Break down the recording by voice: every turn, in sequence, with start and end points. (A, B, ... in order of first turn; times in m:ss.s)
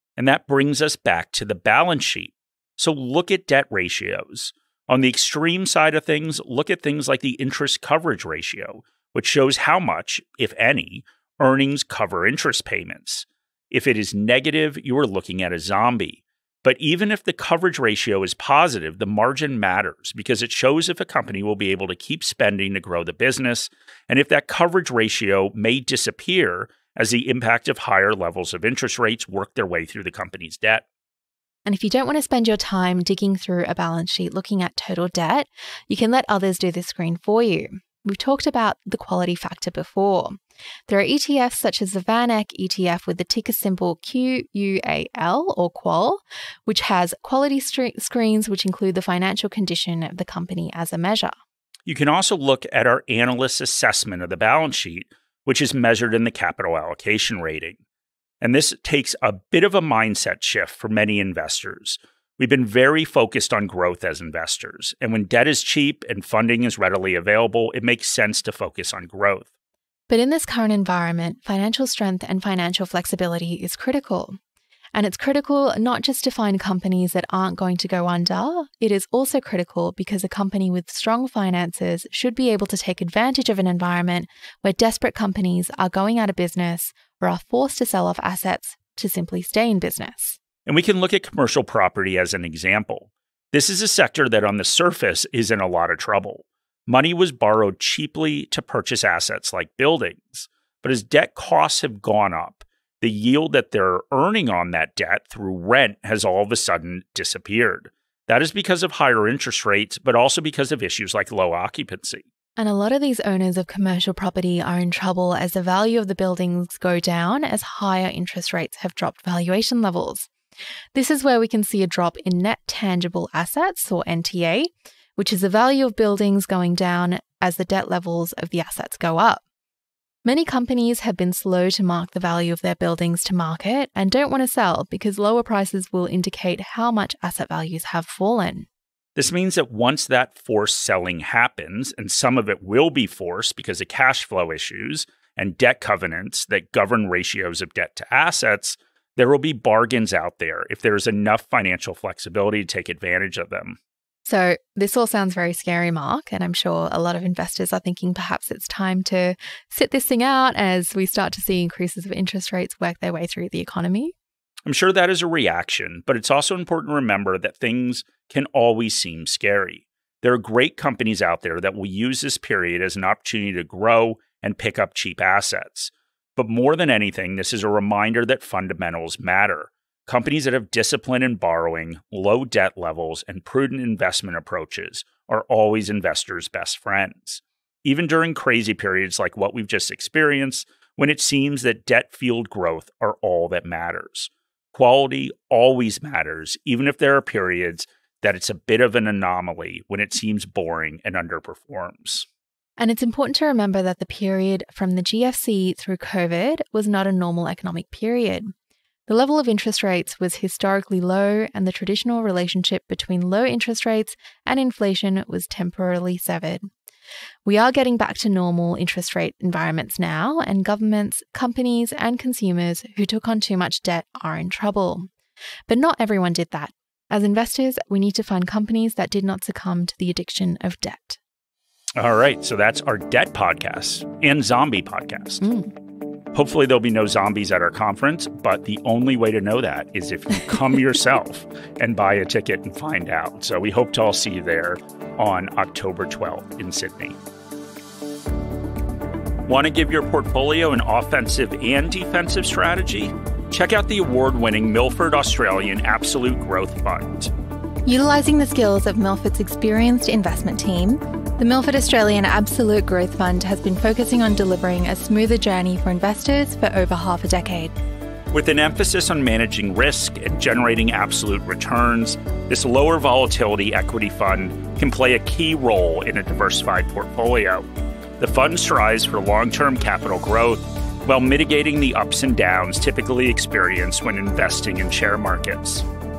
0:00.2-0:30.8 A
0:31.6-0:40.4 B
0:40.9-0:51.3 B
0:51.8-0:57.8 A
0:58.4-1:09.5 A
1:10.1-1:14.4 B
1:14.9-1:30.4 B
1:30.6-1:52.2 A
1:52.6-2:00.3 B
2:00.9-2:09.4 B
2:10.2-2:18.7 B
2:19.2-2:33.8 A
2:34.2-2:44.1 B
2:44.6-3:22.2 A
3:22.8-3:28.5 B
3:29.1-3:36.7 B
3:37.4-3:45.1 B
3:45.7-3:51.2 B
3:52.0-3:55.4 A
3:55.4-3:55.7 B
3:56.3-4:07.2 A
4:09.5-4:17.3 A
4:17.8-4:27.7 B
4:28.3-4:37.7 A
4:38.2-4:45.8 A